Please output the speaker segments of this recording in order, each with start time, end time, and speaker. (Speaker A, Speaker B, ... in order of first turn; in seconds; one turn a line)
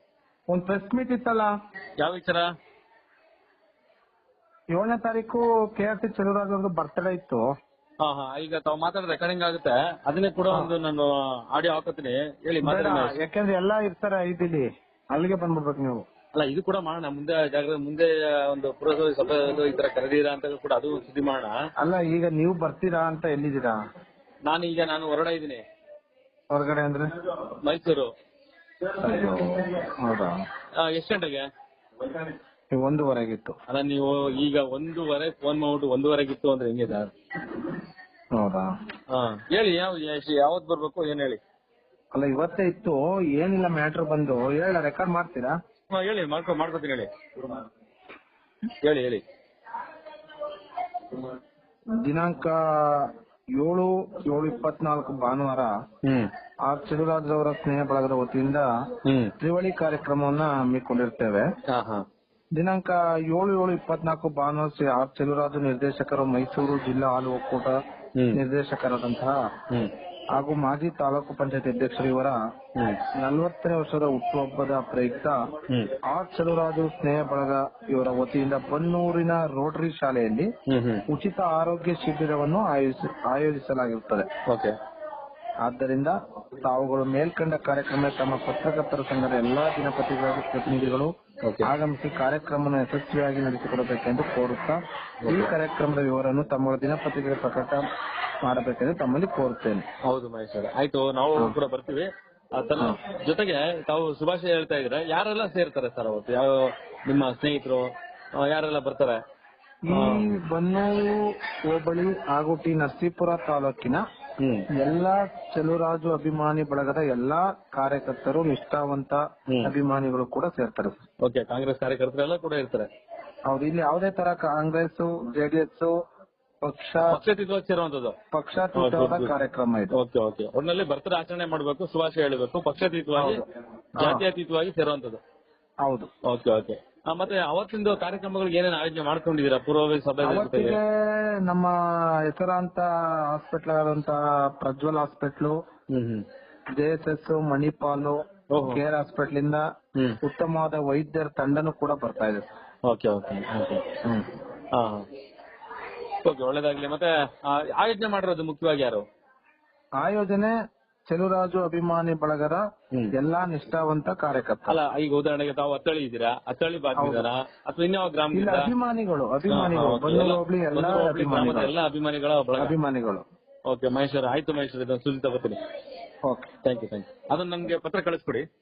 Speaker A: 0.5-1.5
Speaker B: 2.0-2.5
Speaker A: 4.7-7.5
Speaker B: 8.0-13.2
Speaker A: 12.6-16.1
Speaker B: 16.3-21.5
Speaker A: 21.8-23.8
Speaker B: 24.5-25.6
Speaker A: 26.5-27.1
Speaker B: 27.5-28.1
Speaker A: 29.0-30.4
Speaker B: 30.8-31.4
Speaker A: 32.7-33.6
Speaker B: 33.7-37.1
Speaker A: 38.4-38.7
Speaker B: 39.1-41.4
Speaker A: 42.1-45.5
Speaker B: 45.9-47.1
Speaker B: 48.8-49.2
Speaker A: 52.0-55.8
Speaker B: 56.0-56.3
Speaker A: 56.6-58.7
Speaker B: 59.0-59.3
Speaker A: 59.4-61.5
Speaker B: 61.7-62.0
Speaker A: 62.6-67.8
Speaker A: 68.3-69.4
Speaker A: 70.3-72.4
Speaker B: 72.8-73.0
Speaker A: 73.2-75.4
Speaker A: 76.0-80.5
Speaker B: 80.7-81.0
Speaker A: 81.1-84.3
Speaker B: 84.5-84.7
Speaker A: 85.6-91.1
Speaker B: 91.4-91.7
Speaker A: 91.6-97.8
Speaker B: 95.2-95.5
Speaker A: 98.4-99.9
Speaker B: 100.0-107.9
Speaker B: 108.4-109.2
Speaker A: 109.9-114.0
Speaker B: 109.9-110.3
Speaker B: 114.4-114.7
Speaker A: 114.8-121.0
Speaker B: 121.2-122.9
Speaker A: 123.5-125.9
Speaker A: 126.6-127.2
Speaker B: 127.1-128.2
Speaker A: 128.3-129.9
Speaker B: 128.8-129.3
Speaker B: 129.9-133.4
Speaker A: 133.2-133.4
Speaker B: 134.0-135.2
Speaker A: 134.0-134.2
Speaker A: 135.8-136.1
Speaker B: 136.2-140.8
Speaker A: 140.2-141.7
Speaker A: 142.3-145.6
Speaker B: 145.9-146.3
Speaker A: 146.8-149.7
Speaker B: 148.5-148.8
Speaker A: 150.2-152.5
Speaker B: 152.9-154.0
Speaker B: 154.7-155.1
Speaker B: 156.2-159.1
Speaker A: 160.0-160.5
Speaker A: 161.1-164.8
Speaker B: 164.7-168.7
Speaker A: 167.0-167.3
Speaker A: 168.3-171.7
Speaker B: 169.5-172.7
Speaker A: 172.6-173.2
Speaker B: 173.7-175.6
Speaker A: 176.2-176.5
Speaker B: 176.7-178.4